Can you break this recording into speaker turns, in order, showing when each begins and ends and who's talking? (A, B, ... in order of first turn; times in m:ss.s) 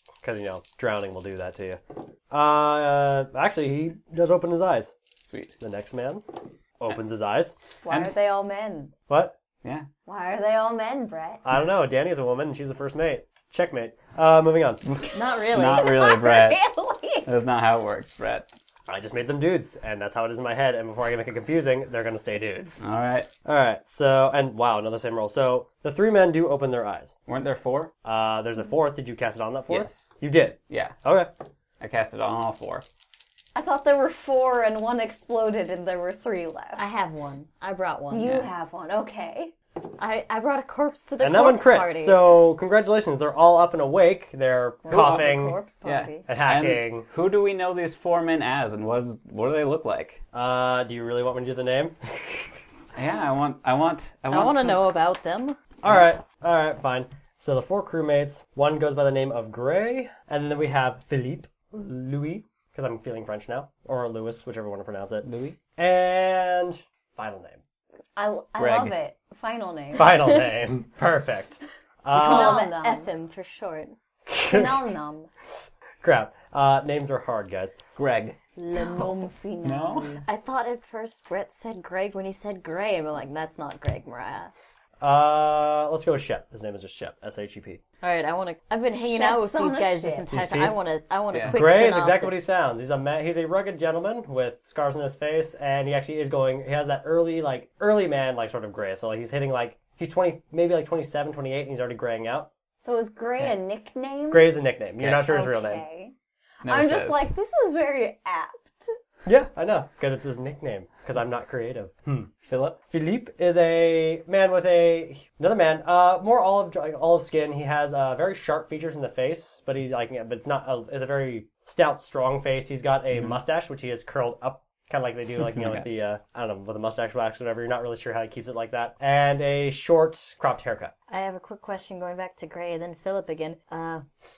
0:00.2-0:04.9 A
0:05.2-0:05.6 B
0:05.6-0:06.2 A
0:06.8-0:07.6 A
0:07.8-0:08.9 C
0:07.9-0:08.2 B
0:09.1-0:09.3 A
0:10.0-0:11.4 C
0:11.4-0:14.8 A
0:14.8-0:16.6 B
0:15.1-0:15.9 D
0:15.6-0:17.3 C
0:17.2-0:18.5 B
0:18.9-0:22.8 A
0:22.8-0:23.3 B
0:23.4-0:27.2 A
0:27.3-0:27.9 B
0:28.0-0:31.3 A
0:29.7-0:30.1 B
0:30.7-0:31.0 B
0:31.8-0:32.8 B
0:33.5-0:36.8 C
0:36.8-0:38.3 D
0:38.1-0:39.5 C
0:38.2-0:38.5 B
0:40.0-0:42.2 D
0:41.2-0:45.6 A
0:44.8-0:46.3 C
0:44.9-0:50.2 B
0:46.3-0:47.0 A
0:50.3-0:52.6 A
0:52.9-0:54.9 B
0:54.3-0:55.6 D
0:55.8-1:07.6 A
1:05.2-1:05.6 B
1:08.2-1:10.4 C
1:08.6-1:09.0 B
1:09.9-1:12.6 A
1:12.1-1:14.0 D
1:12.1-1:13.1 C
1:14.3-1:15.0 A
1:14.4-1:15.3 C
1:16.0-1:17.8 A
1:18.0-1:18.4 B
1:18.6-1:20.2 C
1:19.6-1:20.1 B
1:20.2-1:24.6 D
1:25.0-1:27.8 A
1:28.0-1:32.4 D
1:28.9-1:30.3 C
1:30.3-1:30.8 A
1:31.3-1:31.6 B
1:31.5-1:42.5 A
1:42.8-1:44.5 C
1:44.3-1:45.8 A
1:45.0-1:45.2 B
1:45.1-1:46.1 C
1:46.6-1:47.3 B
1:46.6-1:48.9 C
1:49.2-2:10.9 A
2:11.1-2:14.0 D